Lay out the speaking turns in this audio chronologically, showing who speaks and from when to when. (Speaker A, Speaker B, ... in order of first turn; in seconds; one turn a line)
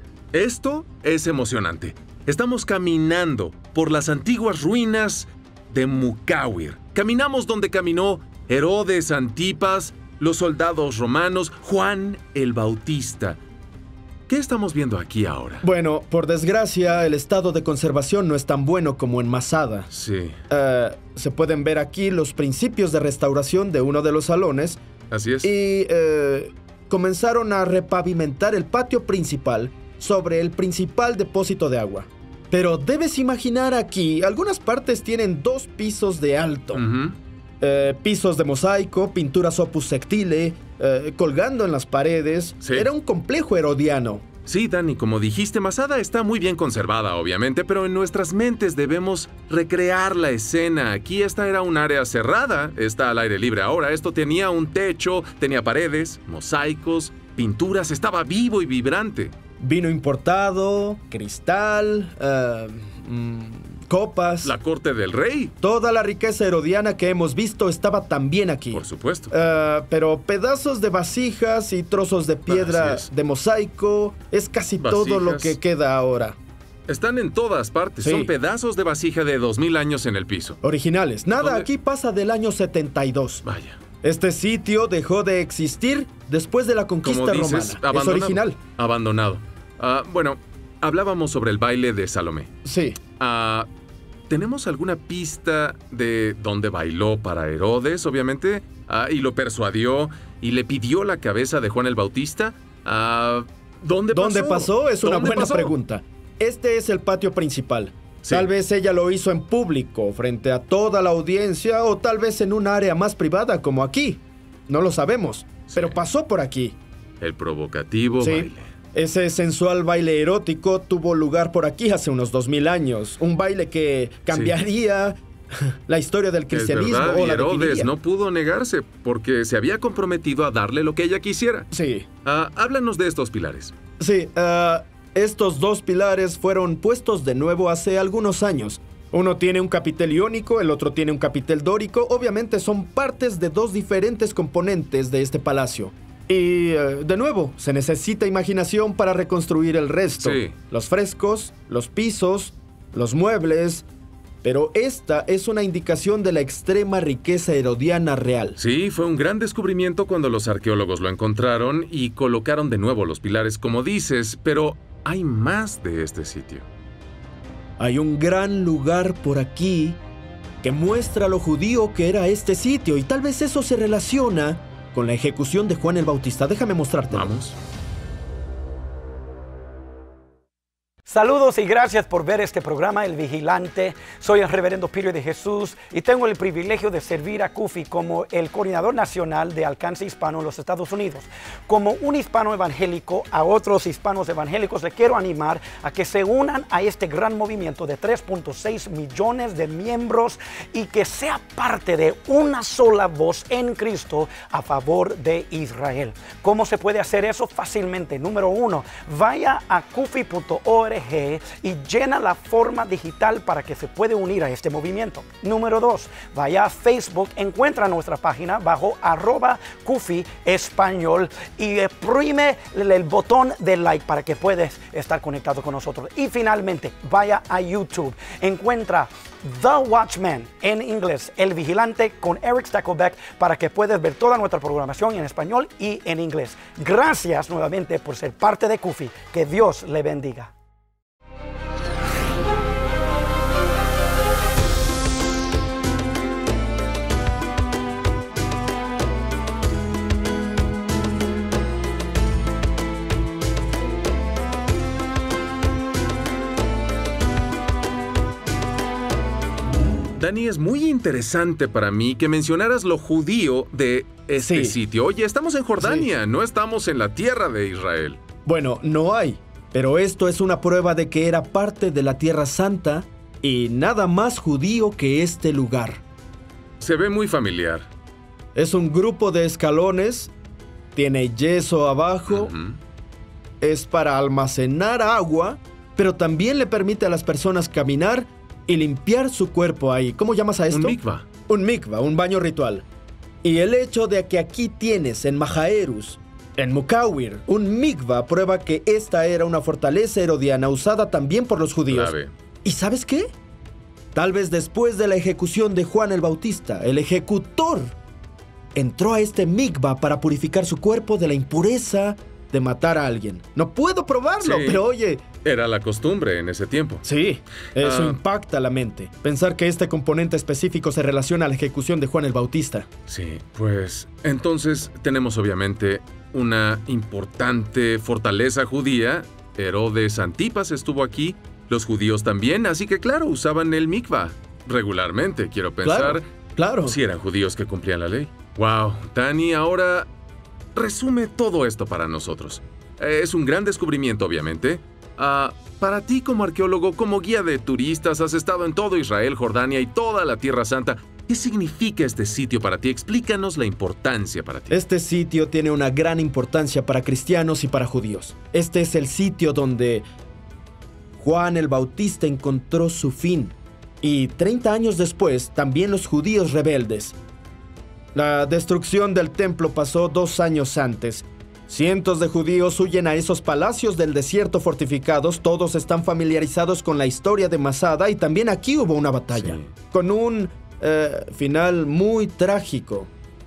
Speaker A: 0.3-13.4
Speaker A: 14.3-15.6
Speaker B: 15.6-19.9
Speaker A: 19.9-20.4
Speaker B: 20.5-24.8
Speaker A: 25.1-25.5
Speaker B: 25.4-36.8
Speaker A: 36.7-37.1
Speaker B: 37.6-44.2
Speaker A: 42.6-42.9
Speaker A: 44.5-59.3
Speaker B: 59.6-64.5
Speaker A: 64.4-65.5
Speaker B: 65.6-76.3
Speaker A: 68.7-69.3
Speaker A: 72.5-73.1
Speaker A: 74.8-75.6
Speaker A: 76.9-80.6
Speaker B: 78.0-78.3
Speaker B: 80.6-83.4
Speaker A: 81.3-81.7
Speaker A: 83.4-83.8
Speaker B: 84.0-88.6
Speaker A: 87.0-92.5
Speaker B: 92.6-93.0
Speaker A: 93.2-93.7
Speaker A: 94.3-105.7
Speaker B: 104.1-116.8
Speaker A: 115.7-116.0
Speaker A: 117.2-118.6
Speaker B: 118.2-127.9
Speaker A: 126.5-131.7
Speaker B: 131.7-132.1
Speaker A: 132.2-133.7
Speaker B: 134.0-153.8
Speaker A: 150.2-150.5
Speaker B: 154.4-158.6
Speaker A: 158.6-166.6
Speaker B: 167.8-170.0
Speaker B: 170.6-177.3
Speaker A: 177.1-177.5
Speaker C: 181.1-240.5
Speaker A: 260.2-268.2
Speaker B: 264.4-264.8
Speaker B: 265.8-266.1
Speaker B: 268.4-276.0
Speaker A: 276.8-277.9
Speaker B: 278.5-280.3
Speaker B: 280.9-282.5
Speaker A: 282.3-282.8
Speaker B: 283.6-292.9
Speaker A: 290.7-291.2
Speaker B: 293.4-302.1
Speaker A: 301.9-302.3
Speaker B: 302.6-303.3
Speaker B: 304.1-307.9
Speaker B: 308.7-315.2
Speaker A: 314.4-314.8
Speaker A: 315.4-317.0
Speaker B: 317.0-322.9
Speaker A: 317.8-318.2
Speaker A: 323.1-336.2
Speaker B: 335.8-336.9
Speaker A: 336.8-340.1
Speaker A: 340.7-354.8
Speaker B: 354.7-360.0
Speaker B: 361.2-367.1
Speaker B: 368.1-383.1
Speaker A: 379.3-379.7